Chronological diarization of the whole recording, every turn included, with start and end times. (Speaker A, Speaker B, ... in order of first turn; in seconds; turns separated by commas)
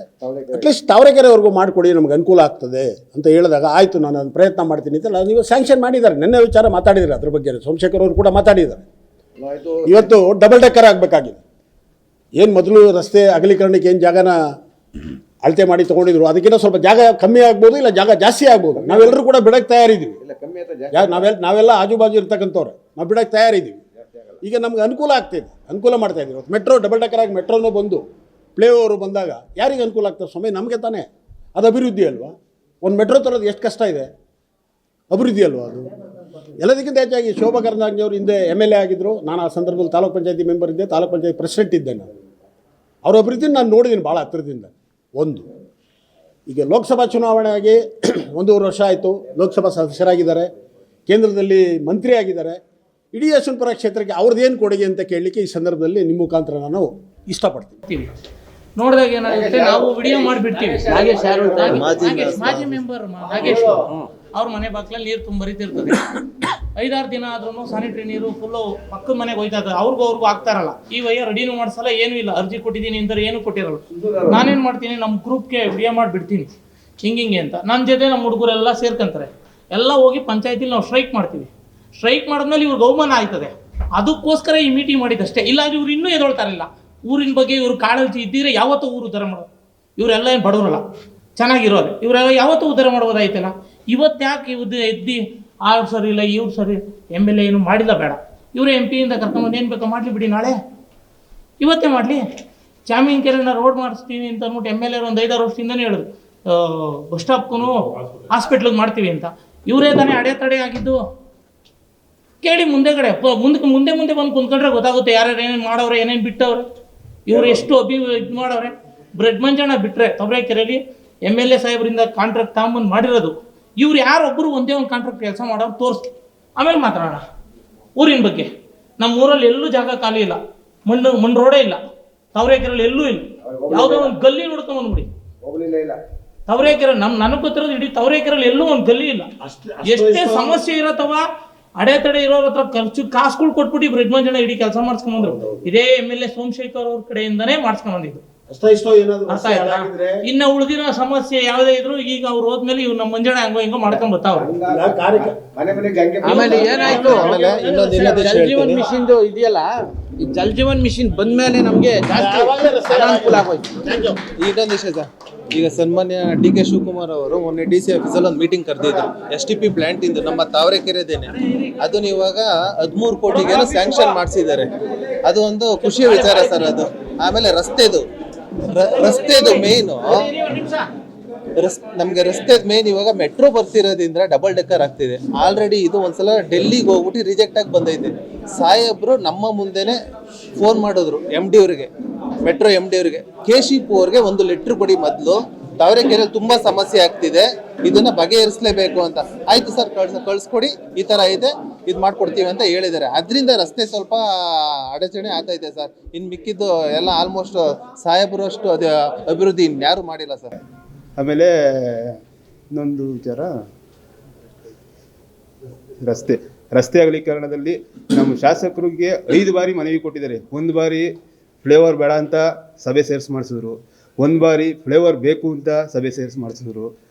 Speaker A: 0.2-0.7, Speaker B: 0.5-8.8, Speaker A: 9.4-10.1, Speaker B: 9.8-11.4, Speaker B: 12.4-14.4, Speaker B: 15.4-20.2, Speaker A: 18.8-19.2, Speaker A: 20.2-21.2, Speaker B: 20.9-23.8, Speaker A: 24.0-24.4, Speaker B: 24.4-28.0, Speaker B: 28.6-34.1, Speaker B: 35.1-35.9, Speaker B: 36.6-42.1, Speaker B: 43.0-45.5, Speaker B: 46.5-50.5, Speaker B: 51.1-52.6, Speaker B: 53.1-57.8, Speaker C: 58.8-63.8, Speaker A: 59.2-62.6, Speaker D: 60.9-61.9, Speaker E: 61.6-62.7, Speaker A: 63.2-63.9, Speaker C: 64.3-66.2, Speaker C: 66.8-76.5, Speaker A: 73.9-74.5, Speaker C: 77.0-89.5, Speaker C: 90.0-90.8, Speaker C: 91.4-100.6, Speaker C: 101.6-102.2, Speaker C: 102.9-111.0, Speaker C: 112.4-116.7, Speaker C: 117.3-127.2, Speaker C: 128.0-131.8, Speaker C: 132.3-135.1, Speaker A: 133.4-134.1, Speaker A: 135.4-136.0, Speaker C: 136.5-139.3, Speaker B: 139.4-140.6, Speaker C: 139.8-141.2, Speaker C: 141.8-148.2, Speaker B: 145.2-145.6, Speaker B: 148.5-150.2, Speaker C: 149.3-154.5, Speaker A: 153.9-157.4, Speaker B: 154.7-155.3, Speaker B: 156.2-158.6, Speaker D: 156.2-157.3, Speaker E: 157.0-158.8, Speaker D: 158.0-159.7, Speaker D: 160.2-163.6, Speaker B: 162.1-164.2, Speaker E: 164.4-174.7, Speaker E: 175.2-178.0, Speaker D: 176.0-176.7, Speaker E: 178.7-180.1, Speaker D: 178.9-180.9, Speaker E: 181.6-190.0, Speaker E: 190.6-191.9, Speaker E: 192.4-210.5, Speaker F: 211.2-212.2, Speaker F: 212.7-213.5, Speaker F: 216.0-221.1, Speaker F: 221.6-226.9